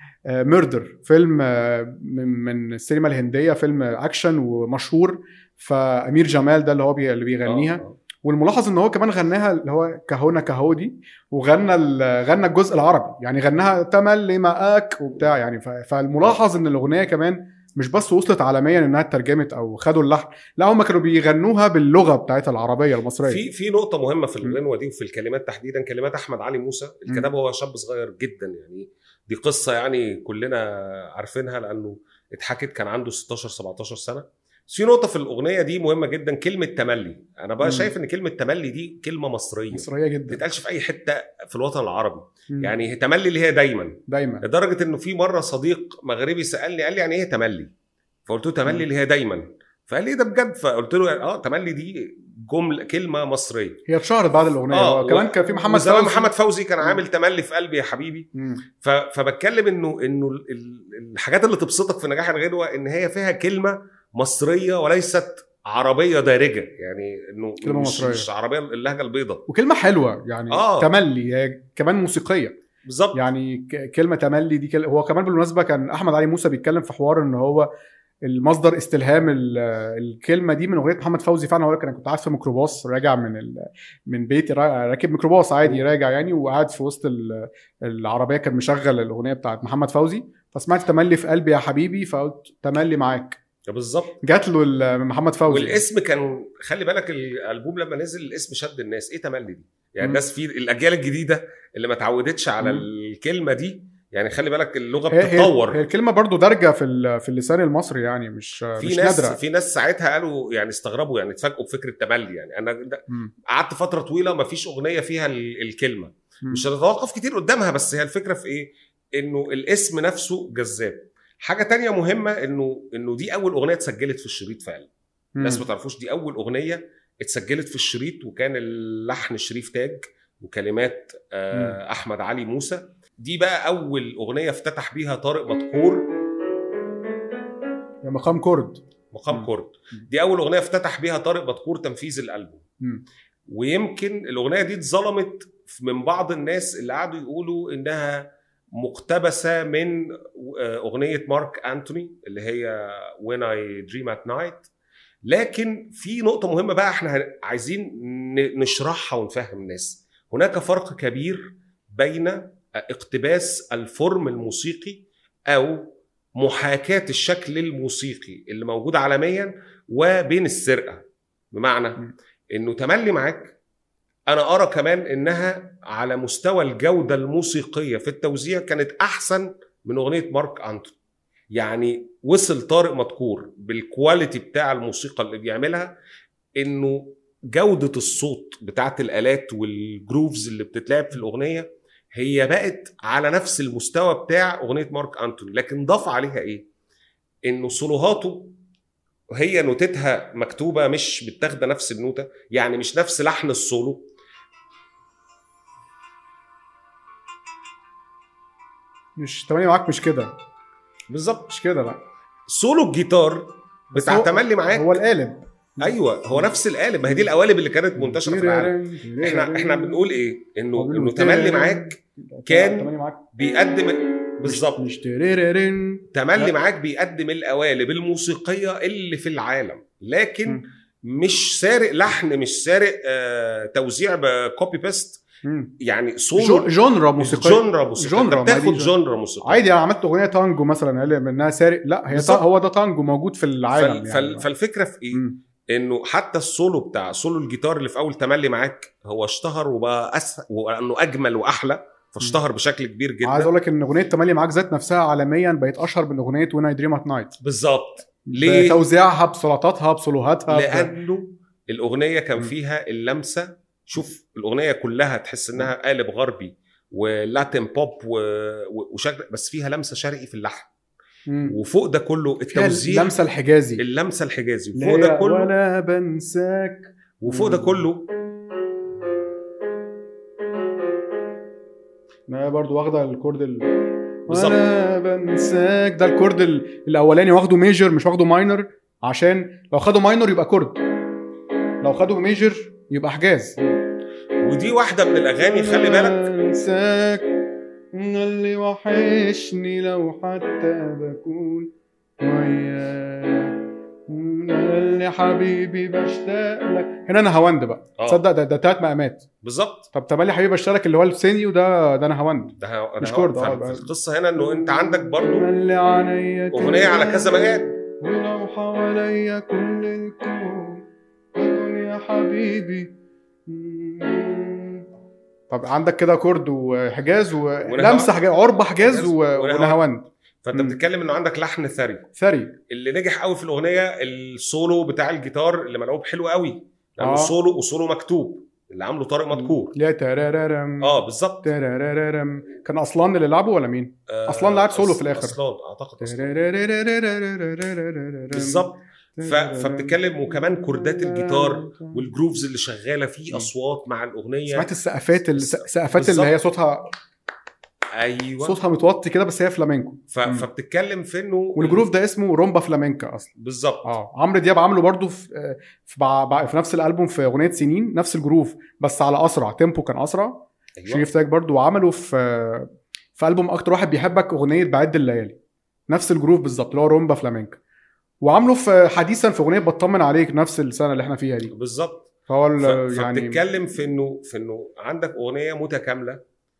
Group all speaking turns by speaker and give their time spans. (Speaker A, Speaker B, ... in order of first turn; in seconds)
Speaker A: 0.3-23.4, 37.6-37.9, 39.7-40.4, 42.5-42.8, 44.1-44.4, 53.9-56.3, 58.4-58.6, 67.6-68.3, 69.5-72.5, 73.2-77.7, 78.3-93.4, 94.2-95.8, 102.6-102.9, 105.1-109.4, 125.4-125.7, 131.5-131.8, 138.0-139.5, 209.2-210.3, 211.5-212.0, 213.9-216.5, 218.0-220.0, 220.8-223.3, 224.4-226.6, 235.4-235.7, 236.4-244.5, 245.1-245.4, 253.2-257.4, 258.3-260.9, 271.3-271.6, 272.5-273.8, 274.8-277.9, 282.3-290.8, 291.8-293.6, 295.4-297.3, 297.9-301.7, 302.2-309.2, 309.9-320.8, 321.4-322.9, 323.5-324.8, 325.5-330.8, 332.2-332.6, 337.0-337.4, 339.3-345.4, 346.0-352.2, 354.5-356.9, 358.4-360.5, 361.6-363.3, 363.8-375.4, 375.9-377.6, 378.2-381.5, 382.3-383.4
Speaker B: 7.5-8.0, 23.2-47.7, 48.3-53.8, 54.7-58.3, 58.8-69.4, 70.5-70.9, 72.8-73.2, 93.7-94.2, 95.5-105.8, 108.8-124.9, 125.4-136.1, 139.1-142.6, 143.5-154.7, 155.3-173.6, 174.3-180.9, 181.6-185.9, 186.6-196.7, 197.5-198.5, 199.4-204.1, 211.1-211.5, 212.5-215.0, 215.8-224.9, 226.1-235.2, 235.8-239.6, 242.1-242.4, 243.7-253.5, 257.4-258.8, 260.5-270.7, 271.5-273.1, 273.8-275.5, 277.2-278.1, 284.3-284.6, 294.4-296.3, 309.4-309.9, 312.6-315.5, 316.5-317.8, 327.7-328.1, 328.8-329.8, 330.4-332.1, 332.7-339.8, 340.8-341.5, 344.1-346.4, 348.3-354.7, 355.3-356.3, 357.9-358.6, 360.1-361.9, 363.4-363.9, 370.8-371.1, 381.5-382.1, 382.6-386.2